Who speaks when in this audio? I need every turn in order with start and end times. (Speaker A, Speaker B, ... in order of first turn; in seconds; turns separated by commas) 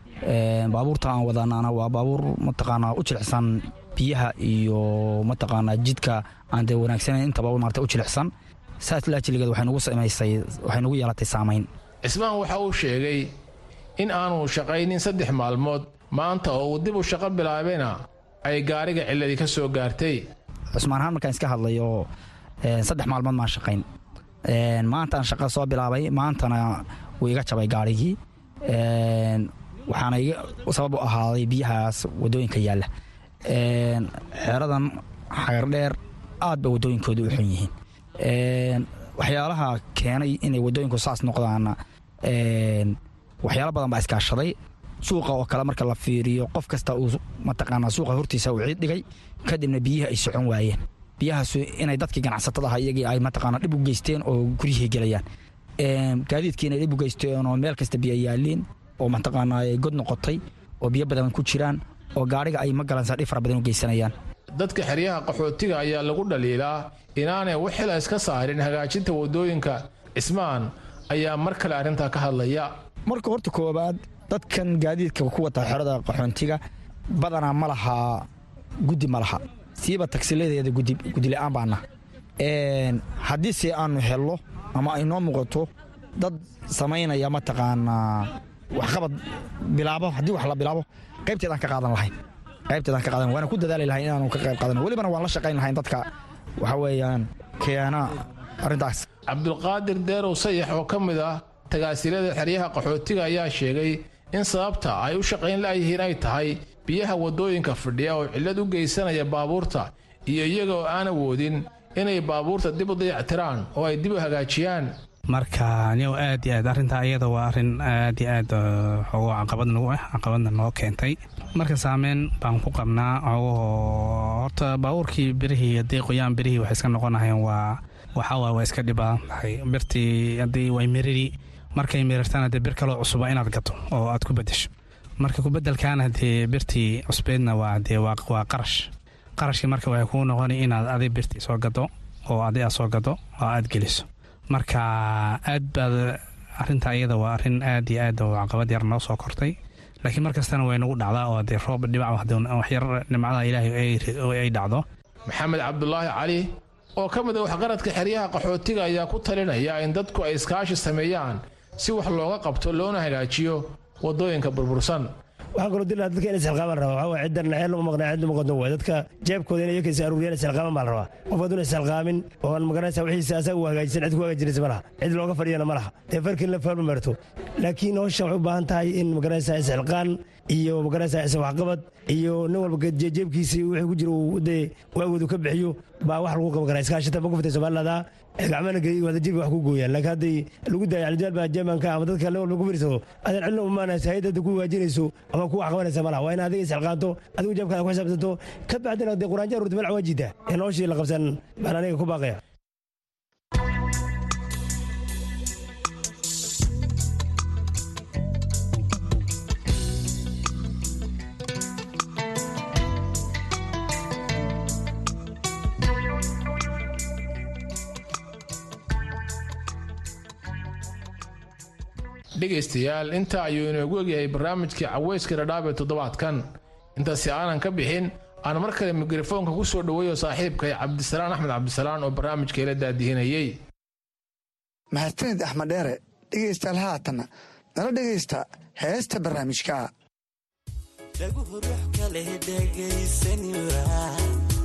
Speaker A: 0.2-11.7, Speaker B: 12.0-13.3, Speaker B: 14.0-20.2, Speaker A: 20.7-22.1, Speaker A: 22.6-23.8, Speaker A: 24.5-32.9, Speaker A: 33.4-55.2, Speaker A: 55.8-64.1, Speaker B: 64.5-72.7, Speaker A: 73.1-76.6, Speaker A: 77.1-78.2, Speaker A: 78.8-81.8, Speaker A: 82.4-92.1, Speaker A: 92.7-96.1, Speaker A: 96.6-99.0, Speaker B: 99.3-114.9, Speaker C: 115.3-134.7, Speaker C: 135.2-138.8, Speaker C: 139.4-154.8, Speaker B: 155.3-165.1, Speaker D: 165.6-202.4, Speaker B: 222.4-226.4, Speaker B: 227.0-233.6, Speaker E: 234.9-239.9, Speaker F: 241.2-244.4